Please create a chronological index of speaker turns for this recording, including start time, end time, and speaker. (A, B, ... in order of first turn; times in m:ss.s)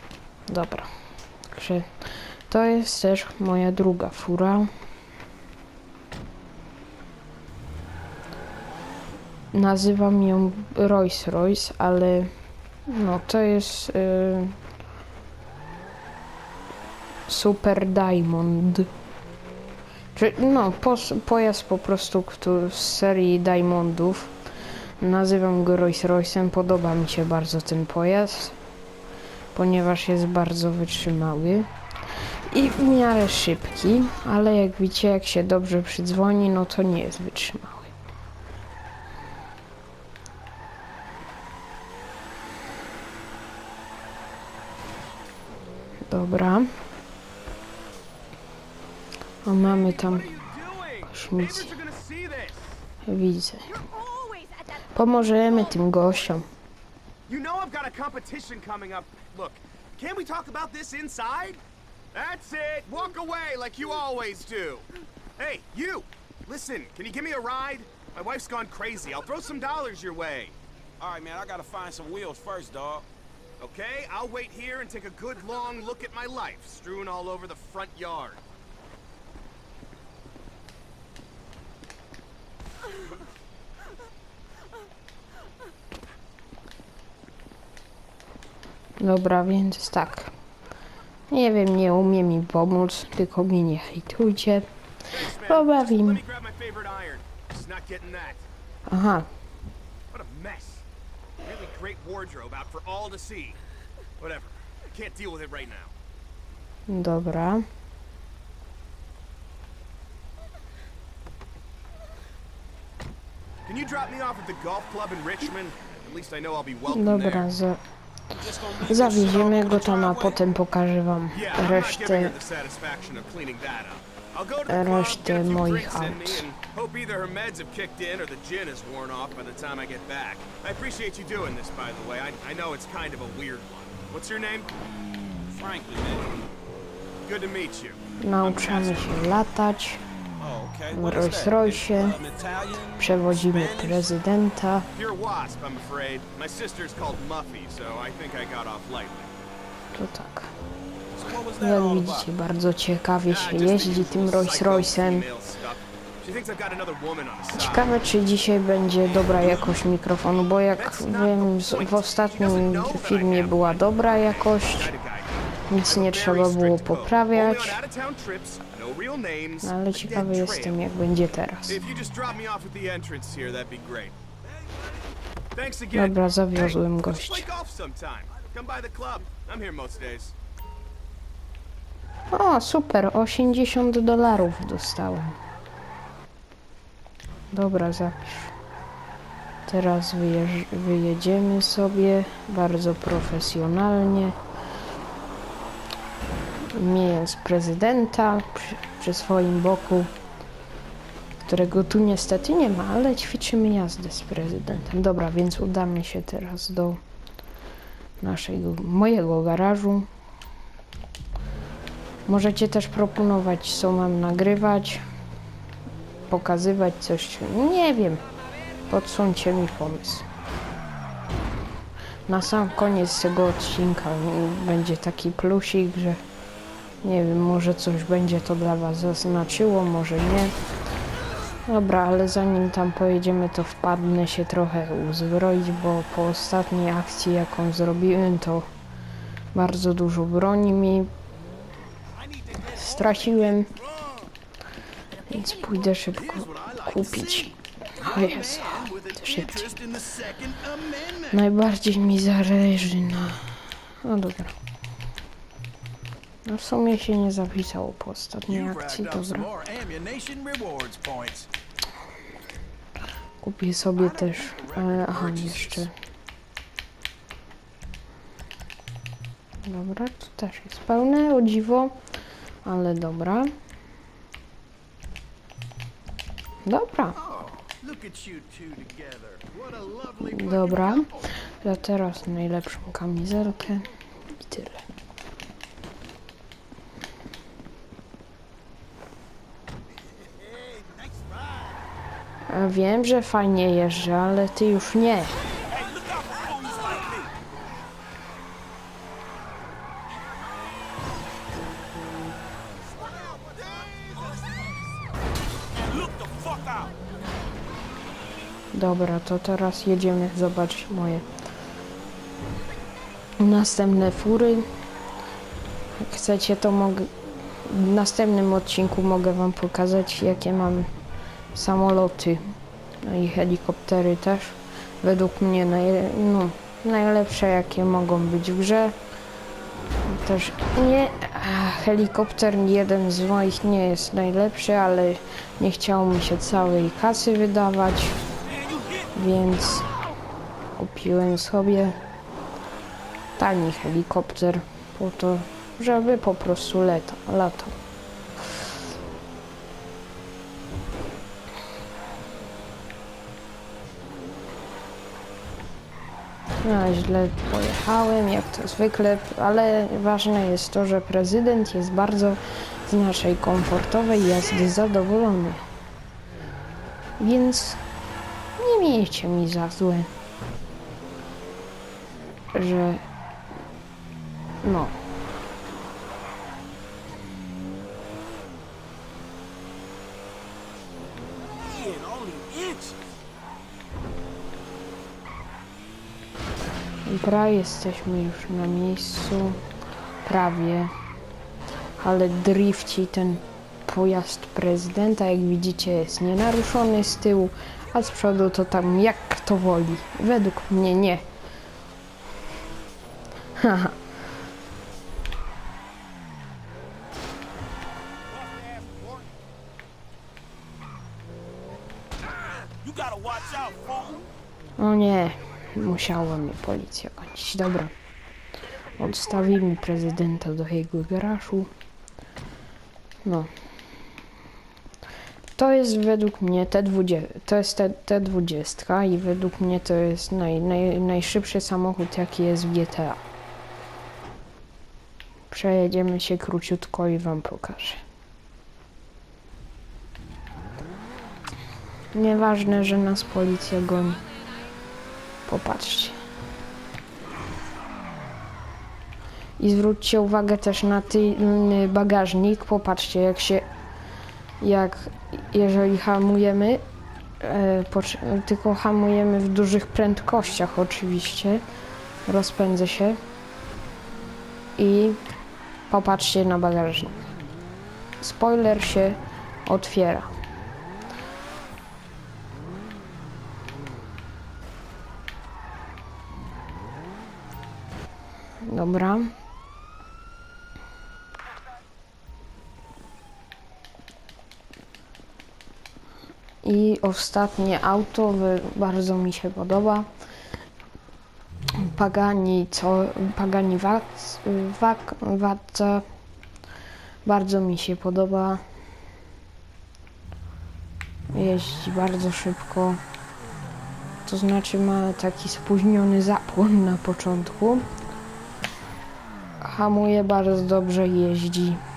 0:00.5-0:00.9 A
0:01.5-0:04.7 A
0:09.5-0:12.3 A
0:12.9-0:14.6 A
0:17.3-0:18.9 A
0:20.1-0:24.3 A
0:25.0-0:28.6 A
0:29.5-0:31.7 A
0:32.5-0:37.9 A
0:46.1-0:46.7 A
0:49.4-0:50.3 A
0:49.6-0:52.8 B
0:51.1-0:51.7 A
0:53.0-0:53.8 A
0:54.9-0:56.5 A
0:57.3-1:01.6 B
1:02.1-1:04.9 B
1:05.4-1:10.6 B
1:11.0-1:13.1 C
1:13.6-1:18.4 B
1:29.0-1:30.3 A
1:31.3-1:34.7 A
1:35.1-1:38.4 B
1:35.3-1:36.2 A
1:38.9-1:39.3 A
1:40.1-1:40.8 B
1:41.4-1:43.6 B
1:44.2-1:45.9 B
1:46.9-1:47.7 A
1:53.7-1:57.5 B
1:56.9-1:57.8 A
1:58.3-2:00.4 C
1:58.8-2:02.4 A
2:01.3-2:14.7 B
2:04.7-2:06.5 A
2:15.5-2:16.5 C
2:17.2-2:19.3 B
2:18.2-2:20.0 A
2:20.4-2:24.1 C
2:20.9-2:22.2 A
2:23.0-2:24.9 A
2:24.9-2:29.3 B
2:29.9-2:30.5 A
2:31.1-2:32.3 C
2:31.6-2:35.3 A
2:33.3-2:37.9 B
2:37.5-2:44.9 A
2:39.1-2:39.7 B
2:40.7-2:50.8 B
2:45.7-2:47.8 A
2:49.6-2:51.8 A
2:51.7-2:54.2 B
2:55.5-3:00.3 B
2:55.9-2:57.5 A
3:02.3-3:05.4 A
3:07.5-3:08.5 A
3:09.7-3:14.4 A
3:16.7-3:20.1 A
3:21.4-3:27.0 A
3:28.2-3:30.1 A
3:32.3-3:35.0 A
3:36.3-3:38.2 A
3:38.9-3:40.3 A
3:42.3-3:46.2 A
3:47.0-3:50.5 A
3:51.7-3:58.7 A
3:59.5-4:01.1 A
4:02.4-4:03.3 C
4:02.6-4:03.7 A
4:04.0-4:04.3 C
4:05.3-4:09.8 A
4:05.3-4:11.3 C
4:11.3-4:14.6 A
4:16.5-4:19.5 A
4:18.5-4:21.5 C
4:23.4-4:25.9 A
4:24.0-4:25.9 C
4:29.6-4:32.0 A
4:32.6-4:33.5 A
4:36.6-4:37.2 A
4:37.3-4:41.3 C
4:40.3-4:44.8 A
4:50.6-4:51.3 C
4:52.5-4:55.4 A
4:55.7-4:57.3 C
5:05.8-5:06.9 C
5:08.7-5:11.3 A
5:13.4-5:14.7 A
5:15.9-5:20.9 A
5:21.5-5:22.4 A
5:23.0-5:29.0 A
5:30.1-5:38.2 A
5:38.5-5:39.1 C
5:39.1-5:39.9 A
5:40.8-5:42.0 A
5:43.4-5:47.8 A
5:56.6-6:05.6 A
6:07.2-6:07.8 A
6:08.6-6:10.1 A
6:12.5-6:13.0 A
6:14.6-6:15.0 A
6:21.6-6:23.0 C
6:27.1-6:29.6 A
6:30.2-6:30.9 A
6:32.0-6:41.2 A
6:43.6-6:44.0 A
6:48.5-6:49.3 C
6:52.8-6:54.3 C
6:54.8-6:57.9 A
6:59.0-7:01.7 A
7:03.2-7:03.5 A
7:05.6-7:13.2 A
7:15.5-7:18.0 A
7:22.1-7:24.2 A
7:25.5-7:26.2 A
7:29.6-7:33.7 A
7:34.6-7:36.8 A
7:37.4-7:41.6 A
7:42.3-7:43.2 A
7:44.8-7:45.2 A
7:45.9-7:47.2 A
7:48.2-7:50.3 A
7:58.6-7:59.3 A
8:06.6-8:10.1 A
8:11.8-8:16.0 A
8:17.2-8:18.6 A
8:21.3-8:23.0 A
8:24.3-8:27.9 A
8:29.6-8:31.8 A